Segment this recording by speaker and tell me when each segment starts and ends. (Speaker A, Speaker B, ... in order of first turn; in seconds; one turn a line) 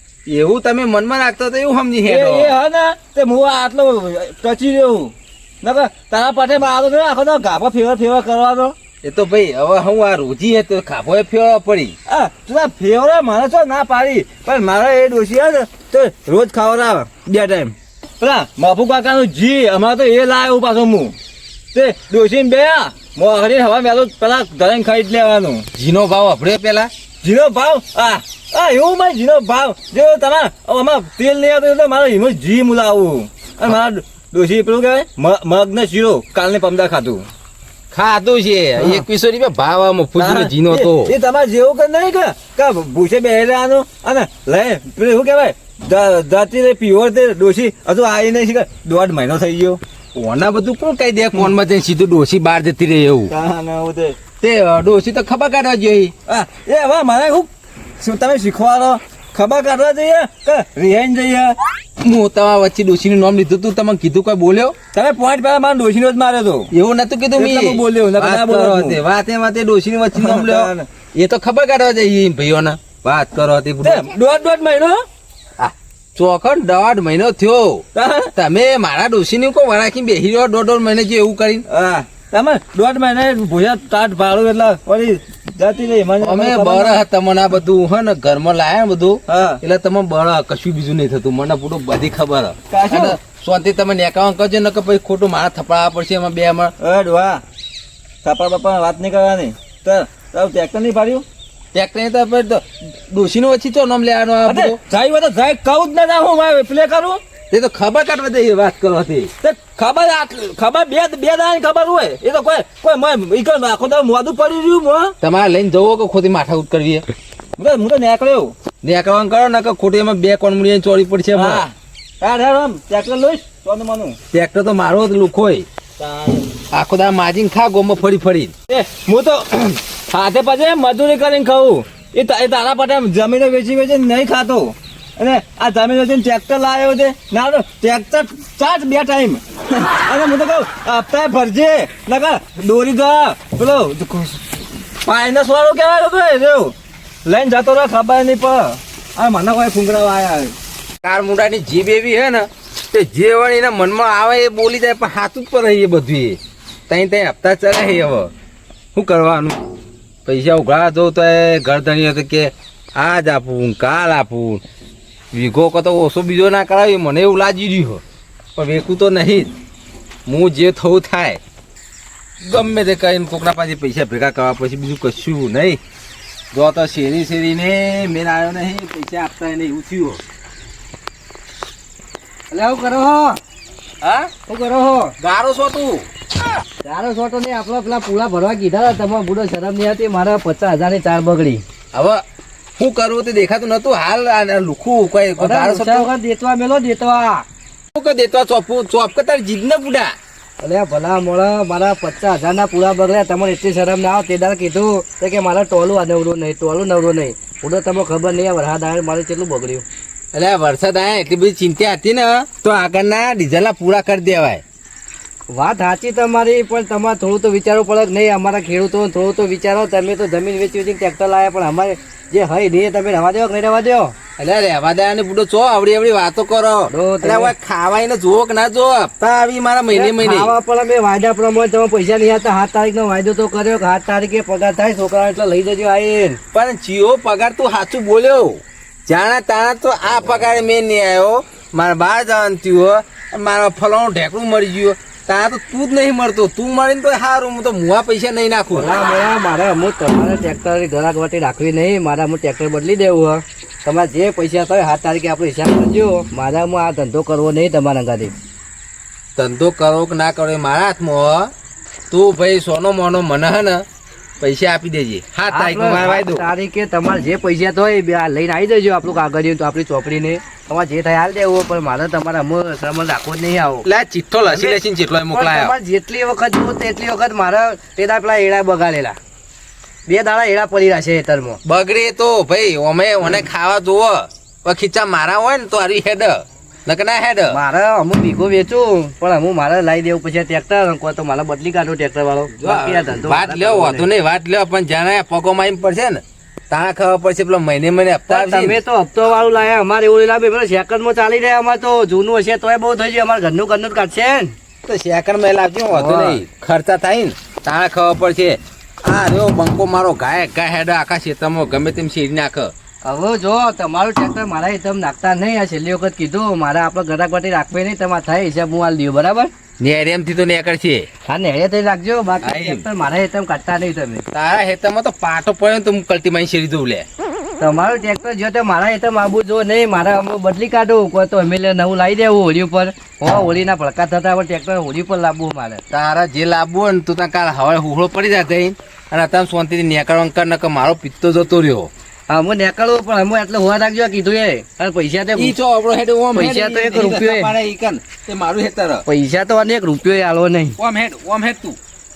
Speaker A: 0.3-2.5
Speaker B: 2.0-8.7
Speaker A: 9.0-11.9
Speaker B: 12.1-21.1
Speaker B: 21.7-25.6
Speaker A: 25.8-26.9
Speaker B: 27.2-37.2
Speaker A: 37.9-41.1
Speaker B: 38.8-39.0
Speaker B: 40.2-49.8
Speaker A: 50.1-53.3
Speaker B: 53.3-54.2
Speaker A: 54.4-56.1
Speaker B: 56.3-61.5
Speaker A: 62.0-64.8
Speaker B: 64.9-66.7
Speaker A: 66.7-74.1
Speaker B: 67.4-69.0
Speaker B: 70.1-70.8
Speaker B: 73.8-75.0
Speaker A: 75.6-81.6
Speaker B: 77.9-78.3
Speaker B: 81.7-87.0
Speaker A: 86.2-96.7
Speaker B: 89.3-89.6
Speaker B: 92.7-93.2
Speaker B: 96.8-97.4
Speaker B: 98.2-101.2
Speaker A: 101.7-104.8
Speaker B: 104.4-107.2
Speaker A: 107.5-109.3
Speaker B: 109.4-115.1
Speaker A: 115.2-117.0
Speaker B: 117.6-118.5
Speaker A: 118.8-121.7
Speaker B: 121.3-124.2
Speaker A: 124.3-125.7
Speaker B: 126.0-126.5
Speaker A: 126.7-128.5
Speaker B: 128.7-144.4
Speaker B: 145.0-146.7
Speaker B: 147.2-150.5
Speaker A: 151.0-158.3
Speaker A: 158.9-159.6
Speaker A: 160.2-164.6
Speaker A: 165.3-168.0
Speaker A: 168.6-169.5
Speaker A: 170.2-171.4
Speaker A: 172.4-175.8
Speaker A: 176.5-180.2
Speaker C: 182.5-183.4
Speaker A: 184.0-184.3
Speaker C: 184.5-185.1
Speaker A: 185.2-186.1
Speaker C: 186.8-191.6
Speaker A: 191.9-192.2
Speaker A: 192.8-196.1
Speaker C: 195.4-197.4
Speaker A: 197.9-200.1
Speaker C: 200.6-209.8
Speaker A: 210.3-214.6
Speaker C: 215.5-224.2
Speaker A: 224.4-230.5
Speaker C: 226.9-227.5
Speaker C: 229.9-236.4
Speaker A: 236.5-248.9
Speaker C: 248.7-258.3
Speaker A: 259.4-261.5
Speaker A: 262.1-263.9
Speaker A: 264.4-266.4
Speaker C: 265.5-273.9
Speaker A: 273.8-275.7
Speaker C: 274.5-274.8
Speaker C: 275.3-279.2
Speaker C: 280.1-281.6
Speaker A: 281.6-287.6
Speaker C: 287.5-294.1
Speaker A: 292.6-298.8
Speaker C: 298.3-304.5
Speaker A: 304.9-312.7
Speaker C: 305.9-306.4
Speaker C: 313.0-319.5
Speaker A: 319.8-321.1
Speaker C: 321.3-324.2
Speaker A: 322.4-322.8
Speaker A: 324.3-327.1
Speaker C: 327.6-335.8
Speaker A: 335.9-341.9
Speaker C: 342.3-345.6
Speaker A: 345.4-349.0
Speaker C: 346.3-347.5
Speaker C: 349.1-350.8
Speaker A: 350.8-351.8